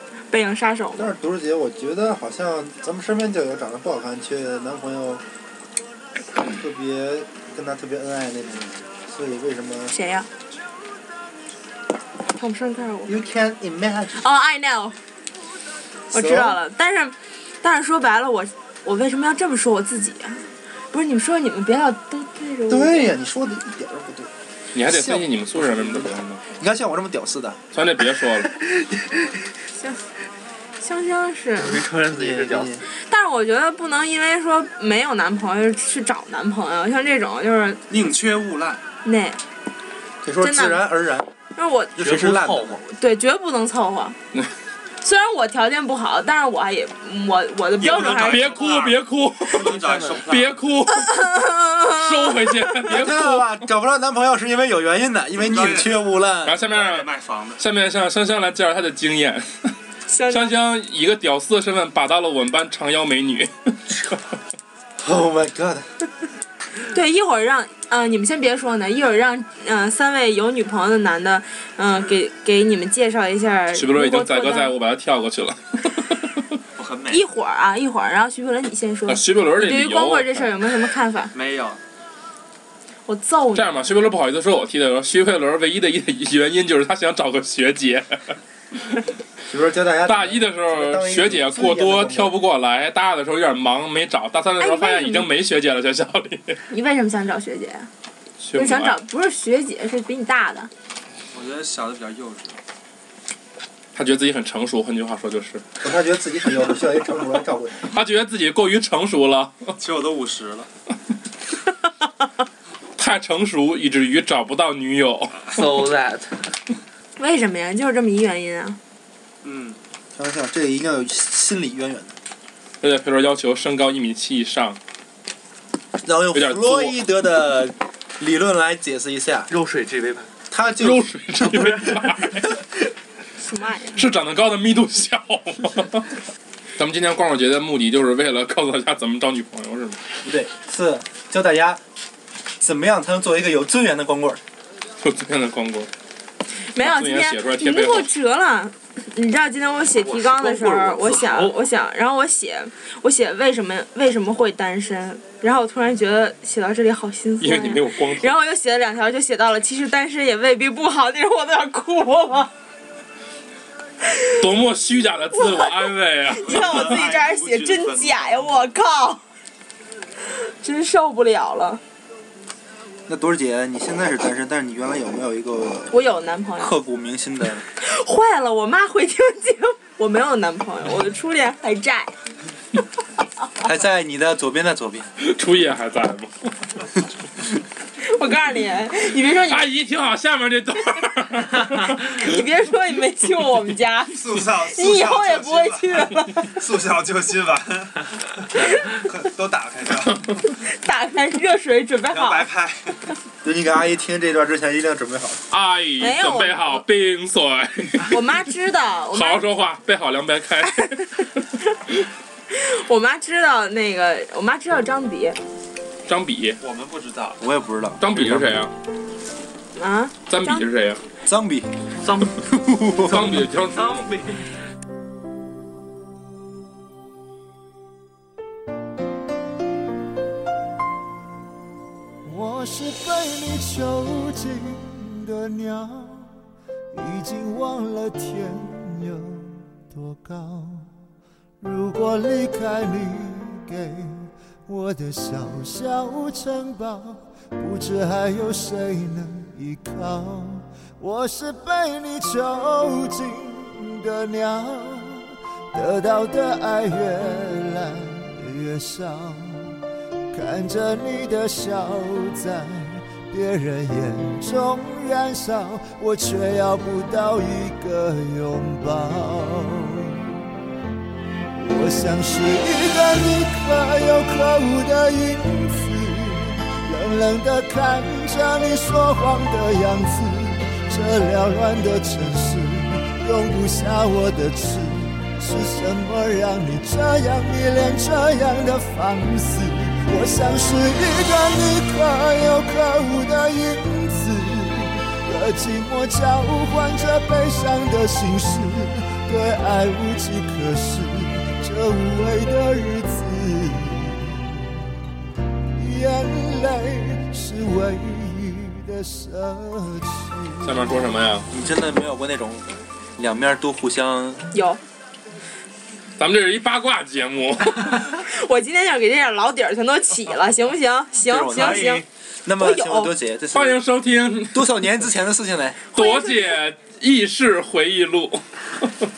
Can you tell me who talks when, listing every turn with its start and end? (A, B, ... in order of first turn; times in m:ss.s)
0:00.3-0:01.1 A
0:01.0-0:05.2 B
0:06.4-0:09.9 B
0:09.9-0:10.3 A
0:12.4-0:13.1 A
0:13.1-0:14.2 B
0:14.2-0:15.0 A
0:16.1-0:16.6 B
0:16.1-0:23.1 A
0:22.7-0:27.6 B
0:24.7-0:26.4 C
0:27.7-0:28.5 C
0:29.8-0:30.0 A
0:30.8-0:31.8 A
0:31.6-0:32.7 D
0:32.1-0:32.8 B
0:33.1-0:37.8 A
0:37.9-0:38.8 E
0:39.0-0:39.4 A
0:40.2-0:41.3 B
0:40.4-0:40.8 A
0:41.6-0:42.0 A
0:42.0-0:42.8 B
0:42.0-0:42.8 D
0:42.8-0:44.2 A
0:45.0-0:48.5 A
0:47.8-0:50.6 E
0:47.8-0:53.6 C
0:51.1-0:52.5 A
0:52.8-0:56.6 B
0:55.4-0:56.0 E
0:56.4-0:59.7 C
0:56.7-0:57.6 E
1:00.1-1:00.5 A
1:00.3-1:03.8 C
1:05.0-1:05.9 B
1:06.9-1:14.7 A
1:13.7-1:16.2 C
1:16.8-1:17.2 E
1:17.1-1:21.3 A
1:19.1-1:20.5 C
1:21.3-1:21.8 E
1:23.1-1:23.9 A
1:23.5-1:28.4 C
1:29.5-1:32.4 B
1:30.0-1:36.6 C
1:34.6-1:35.3 A
1:36.7-1:37.9 A
1:38.4-1:39.0 C
1:38.5-1:40.7 A
1:41.3-1:42.6 E
1:43.9-1:45.6 C
1:45.8-1:47.9 B
1:47.9-1:49.7 C
1:49.8-1:50.7 E
1:53.0-1:55.4 C
1:55.5-1:56.4 D
1:57.2-1:58.8 A
1:59.4-1:59.8 E
2:00.1-2:02.2 B
2:02.8-2:04.8 C
2:06.0-2:09.5 B
2:06.3-2:07.0 C
2:09.5-2:10.3 D
2:10.5-2:11.1 B
2:10.8-2:12.6 C
2:11.5-2:12.1 D
2:13.4-2:14.0 A
2:13.9-2:16.1 C
2:16.8-2:20.0 C
2:20.2-2:21.8 B
2:22.6-2:24.4 B
2:25.0-2:25.9 C
2:26.7-2:42.5 A
2:26.8-2:28.1 C
2:30.0-2:31.6 D
2:37.4-2:38.3 C
2:44.4-2:47.0 C
2:45.4-2:49.2 A
2:46.3-2:48.6 E
2:50.4-2:51.8 A
2:53.1-2:55.9 B
2:55.9-2:56.7 A
2:56.6-2:57.6 B
2:57.8-3:02.1 A
3:03.6-3:05.1 B
3:05.2-3:06.5 C
3:08.0-3:09.7 A
3:09.5-3:12.0 C
3:11.8-3:16.5 A
3:14.1-3:20.4 E
3:20.7-3:22.5 A
3:22.1-3:23.1 E
3:23.4-3:25.4 B
3:25.5-3:28.2 C
3:26.0-3:26.8 A
3:28.1-3:29.4 A
3:29.1-3:31.0 C
3:32.5-3:35.4 A
3:36.0-3:36.6 C
3:36.6-3:37.4 E
3:37.4-3:38.6 B
3:38.0-3:38.7 C
3:39.8-3:40.6 A
3:40.3-3:41.0 C
3:41.2-3:41.7 B
3:42.0-3:42.4 D
3:42.4-3:43.4 B
3:43.0-3:44.1 C
3:43.7-3:44.5 D
3:52.2-3:56.3 F
3:56.9-4:00.9 F
4:01.6-4:19.7 F
4:20.3-4:30.4 F
4:31.6-5:04.8 F
5:05.7-5:10.7 F
5:10.6-5:11.5 C
5:11.5-5:14.4 B
5:14.5-5:14.8 A
5:16.2-5:18.0 C
5:18.1-5:22.0 A
5:21.3-5:23.8 B
5:21.5-5:22.0 E
5:22.6-5:23.1 A
5:23.5-5:24.7 C
5:24.5-5:25.8 B
5:25.9-5:28.4 C
5:25.9-5:26.6 A